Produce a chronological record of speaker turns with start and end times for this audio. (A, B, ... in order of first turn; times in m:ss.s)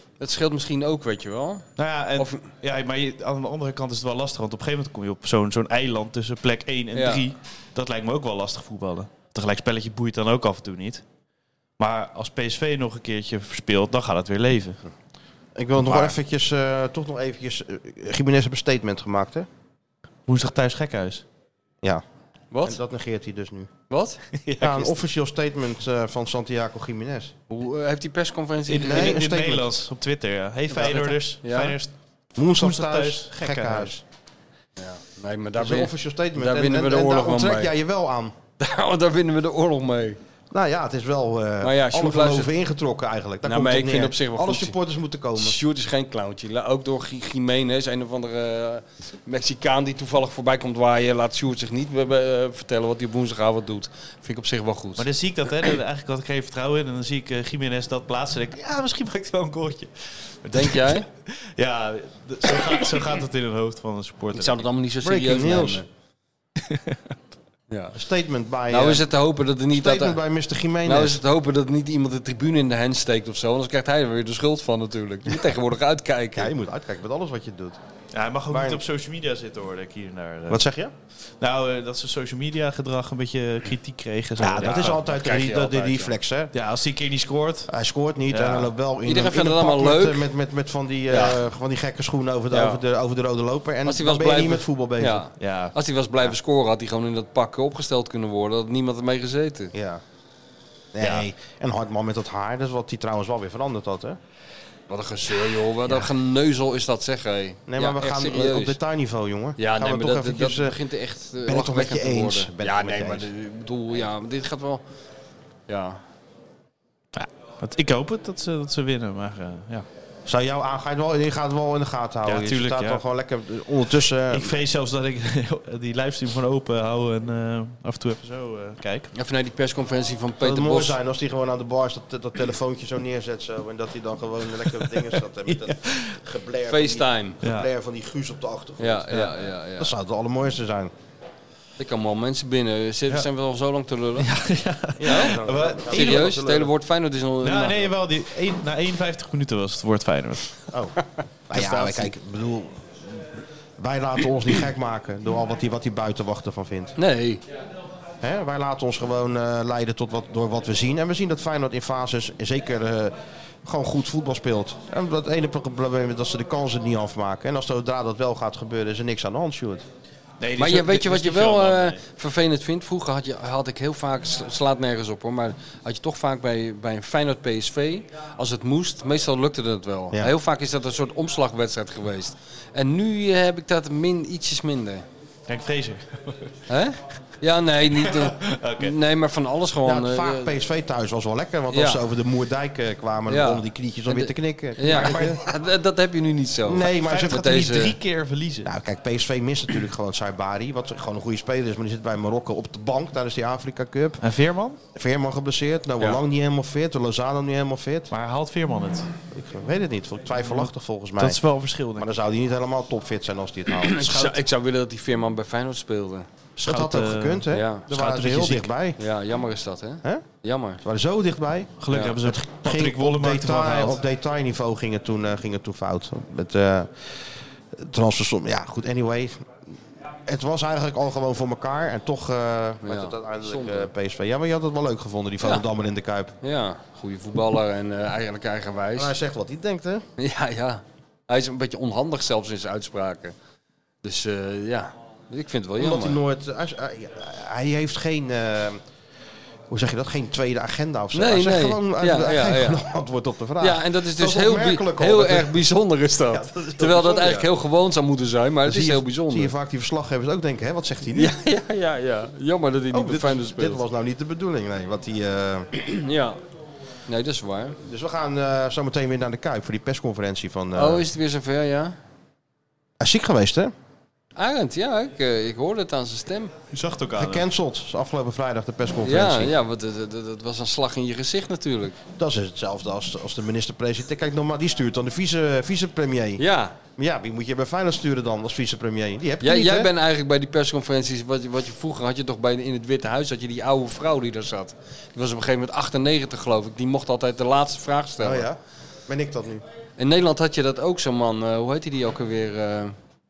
0:00.2-0:01.7 A
0:01.8-0:11.0 B
0:02.2-0:02.4 A
0:06.9-0:07.2 A
0:11.8-0:14.8 B
0:15.6-0:19.5 C
0:15.8-0:16.1 B
0:20.3-0:21.2 B
0:22.5-0:22.8 A
0:22.6-0:23.7 C
0:23.9-0:24.2 A
0:24.4-0:25.0 B
0:24.6-0:27.3 C
0:27.5-0:29.2 A
0:28.7-0:31.9 B
0:28.8-0:29.7 C
0:30.7-0:31.8 A
0:32.4-0:34.0 C
0:32.5-0:34.0 B
0:34.8-0:37.7 A
0:35.6-0:38.4 C
0:38.6-0:40.2 A
0:40.5-0:45.6 C
0:41.6-0:42.5 A
0:43.4-0:44.8 A
0:45.4-0:55.0 A
0:55.0-1:04.6 B
1:00.5-1:01.1 A
1:04.3-1:05.9 A
1:05.0-1:05.8 C
1:06.7-1:07.0 B
1:07.7-1:08.0 A
1:07.9-1:09.1 C
1:08.7-1:10.2 A
1:09.7-1:11.2 C
1:10.8-1:16.5 A
1:16.4-1:17.8 C
1:18.1-1:20.6 B
1:18.5-1:18.8 C
1:20.5-1:20.9 C
1:21.4-1:25.1 B
1:24.4-1:26.5 C
1:24.7-1:26.2 A
1:26.5-1:27.7 B
1:27.7-1:35.3 C
1:28.3-1:28.7 B
1:29.1-1:30.3 A
1:31.1-1:31.4 A
1:32.5-1:32.8 A
1:33.9-1:39.7 A
1:35.4-1:35.7 B
1:39.7-1:40.0 C
1:40.9-1:44.2 C
1:44.9-1:48.8 A
1:47.7-1:50.8 C
1:49.6-1:54.8 A
1:51.5-1:53.3 C
1:55.7-1:56.0 A
1:57.2-1:59.8 B
2:00.3-2:04.6 C
2:02.2-2:03.0 B
2:04.3-2:09.1 B
2:09.1-2:11.0 A
2:10.4-2:19.3 C
2:14.8-2:16.2 B
2:16.7-2:17.4 A
2:17.4-2:17.7 B
2:18.8-2:19.9 A
2:19.8-2:20.9 C
2:21.8-2:24.3 A
2:24.2-2:26.4 B
2:25.0-2:26.7 C
2:25.1-2:25.4 A
2:25.9-2:27.9 A
2:27.4-2:30.5 B
2:30.7-2:31.0 C
2:31.5-2:33.2 C
2:31.5-2:32.1 A
2:33.8-2:37.0 C
2:37.0-2:37.4 A
2:38.2-2:49.8 C
2:50.4-2:52.0 B
2:50.6-3:05.0 A
3:05.5-3:06.5 B
3:06.7-3:10.5 A
3:07.9-3:09.0 B
3:09.8-3:15.4 C
3:11.7-3:12.0 A
3:13.3-3:18.0 A
3:16.7-3:17.5 C
3:17.0-3:18.7 B
3:18.6-3:24.2 C
3:24.2-3:24.8 B
3:25.0-3:28.1 C
3:28.1-3:29.1 B
3:29.3-3:31.4 C
3:30.4-3:32.1 B
3:32.0-3:34.3 C
3:33.8-3:36.3 A
3:36.6-3:39.0 C
3:36.7-3:38.7 B
3:37.5-3:37.9 A
3:39.0-3:40.8 A
3:40.8-3:49.4 C
3:41.8-3:44.0 B
3:50.3-3:56.4 C
3:52.8-3:53.9 A
3:56.4-3:59.1 A
3:59.0-4:00.1 C
4:00.2-4:03.4 A
4:04.0-4:06.2 A
4:05.8-4:08.8 C
4:09.7-4:15.6 C
4:11.1-4:12.8 A
4:13.6-4:19.5 A
4:16.3-4:17.5 C
4:18.6-4:21.3 C
4:21.2-4:23.8 A
4:22.9-4:25.7 C
4:25.7-4:26.4 A
4:27.1-4:27.8 A
4:27.8-4:31.1 C
4:30.8-4:32.0 A
4:33.0-4:33.7 C
4:34.4-4:36.5 A
4:36.7-4:37.5 B
4:37.2-4:39.5 C
4:39.0-4:42.0 A
4:42.2-4:46.4 C
4:46.4-4:46.8 A
4:47.0-4:49.9 C
4:49.4-4:58.5 A
4:58.2-4:59.6 C
5:00.0-5:03.0 A